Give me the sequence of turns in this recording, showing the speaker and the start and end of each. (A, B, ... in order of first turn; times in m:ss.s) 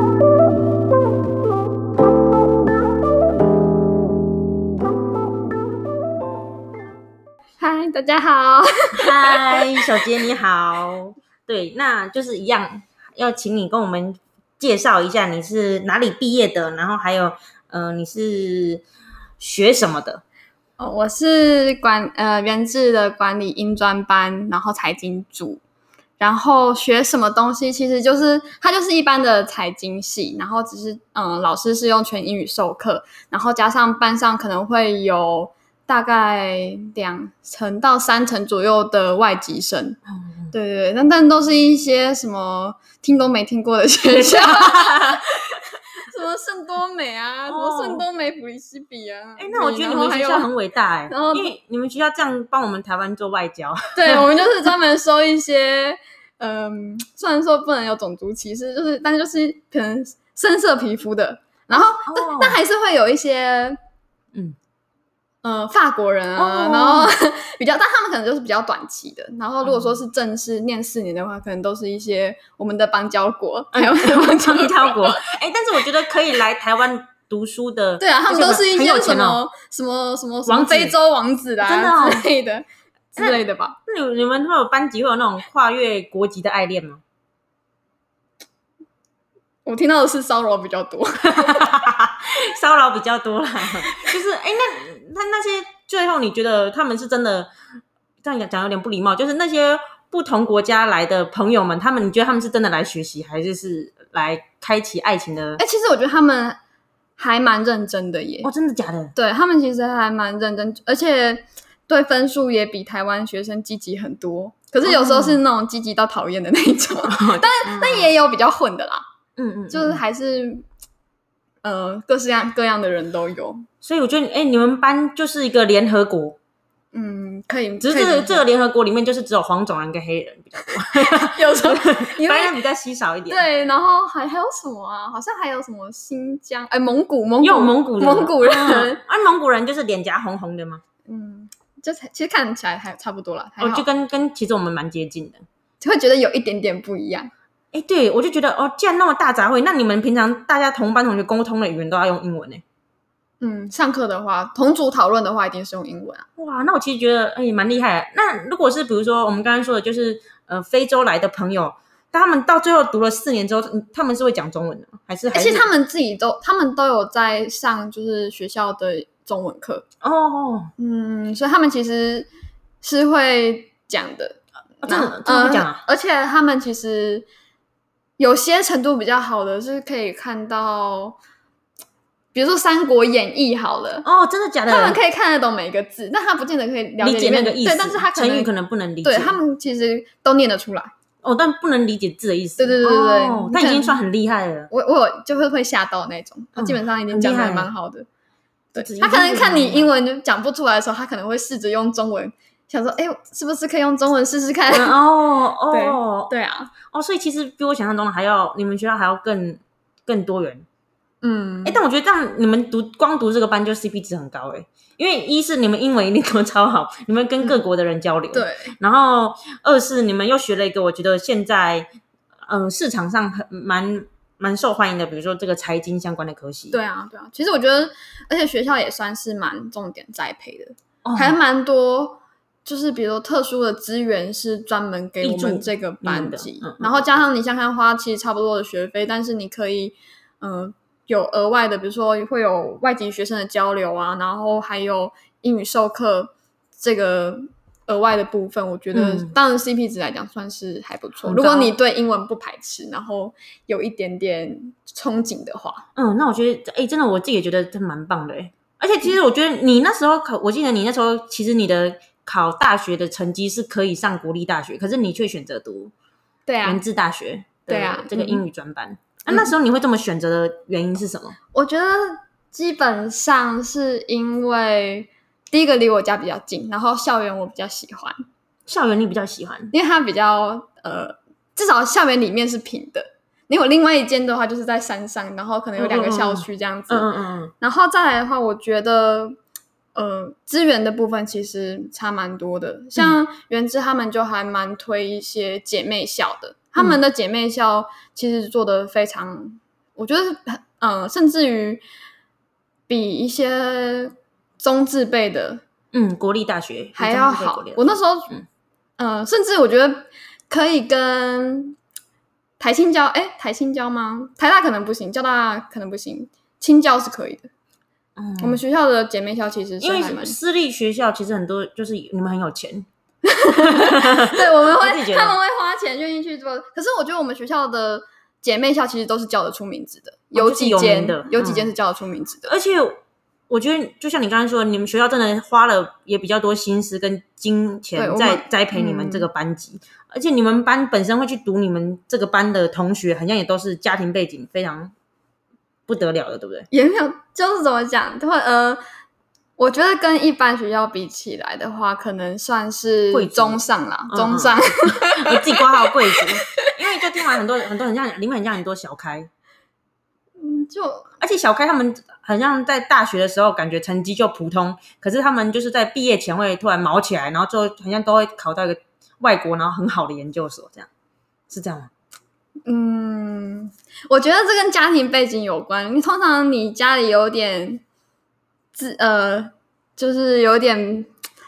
0:07.6-0:09.8 A
0:09.0-0:18.8 B
0:19.4-0:20.2 B
0:20.8-0:25.6 A
0:26.2-0:40.0 A
0:40.2-0:40.5 B
0:40.5-0:50.5 A
0:44.1-0:45.3 B
0:47.5-0:48.0 B
0:49.4-0:54.4 B
0:51.1-0:51.5 A
0:54.0-1:03.8 A
1:01.7-1:02.6 B
1:05.4-1:15.2 A
1:06.4-1:07.2 B
1:09.6-1:10.0 B
1:13.7-1:19.4 B
1:18.0-1:23.8 A
1:20.5-1:21.0 B
1:21.6-1:22.3 B
1:23.2-1:27.0 B
1:29.7-1:31.7 A
1:31.2-1:37.5 B
1:38.2-1:45.6 B
1:45.6-1:46.6 A
1:47.2-1:48.5 A
1:48.4-1:49.1 B
1:49.2-1:59.0 A
1:54.8-1:55.4 B
1:57.1-1:58.1 B
1:59.4-2:00.0 B
1:59.7-2:00.7 A
2:01.6-2:03.7 A
2:03.8-2:06.4 B
2:06.9-2:08.4 A
2:07.8-2:13.4 B
2:10.9-2:12.6 A
2:13.3-2:19.0 A
2:17.4-2:20.8 B
2:21.1-2:23.9 A
2:23.6-2:25.4 B
2:25.8-2:27.3 A
2:27.7-2:32.6 B
2:33.4-2:36.3 A
2:36.4-2:45.7 B
2:45.3-2:49.8 A
2:50.0-2:50.7 B
2:50.8-2:52.3 A
2:52.8-2:57.3 A
2:54.8-2:55.8 B
2:58.2-3:01.2 A
3:02.3-3:04.0 A
3:04.0-3:05.0 B
3:04.7-3:08.5 A
3:07.0-3:09.4 B
3:09.0-3:10.9 A
3:11.2-3:14.7 B
3:12.6-3:14.0 A
3:14.7-3:18.1 A
3:16.6-3:17.7 B
3:18.8-3:25.0 A
3:18.8-3:19.9 B
3:24.7-3:26.3 B
3:25.7-3:26.7 A
3:26.9-3:30.7 B
3:31.2-3:31.8 A
3:31.6-3:41.9 B
3:38.3-3:38.8 A
3:42.5-3:46.8 B
3:46.7-4:15.8 A
3:51.0-3:51.4 B
3:55.2-3:57.0 B
4:08.9-4:09.3 B
4:11.2-4:11.7 B
4:16.0-4:25.9 B
4:26.5-4:26.8 A
4:26.6-4:31.4 B
4:27.7-4:28.4 A
4:29.3-4:29.5 A
4:31.5-4:38.2 A
4:38.7-4:39.7 B
4:39.7-4:47.1 A
4:45.8-4:47.5 B
4:47.6-4:49.4 A
4:49.9-5:01.8 A
5:02.9-5:05.6 A
5:05.9-5:08.4 B
5:07.0-5:08.3 A
5:09.0-5:11.8 A
5:12.6-5:17.5 A
5:18.2-5:18.6 B
5:18.4-5:20.4 A
5:19.8-5:22.9 B
5:23.2-5:32.5 A
5:23.5-5:25.4 B
5:30.3-5:31.7 B
5:32.5-5:33.0 B
5:33.5-5:44.9 B
5:38.0-5:39.3 A
5:45.9-5:46.7 B
5:46.7-5:48.8 A
5:49.6-5:56.2 A
5:53.1-5:59.3 B
6:00.4-6:01.1 A
6:01.2-6:10.9 B
6:11.5-6:11.9 B
6:12.6-6:17.8 A
6:18.8-6:21.1 A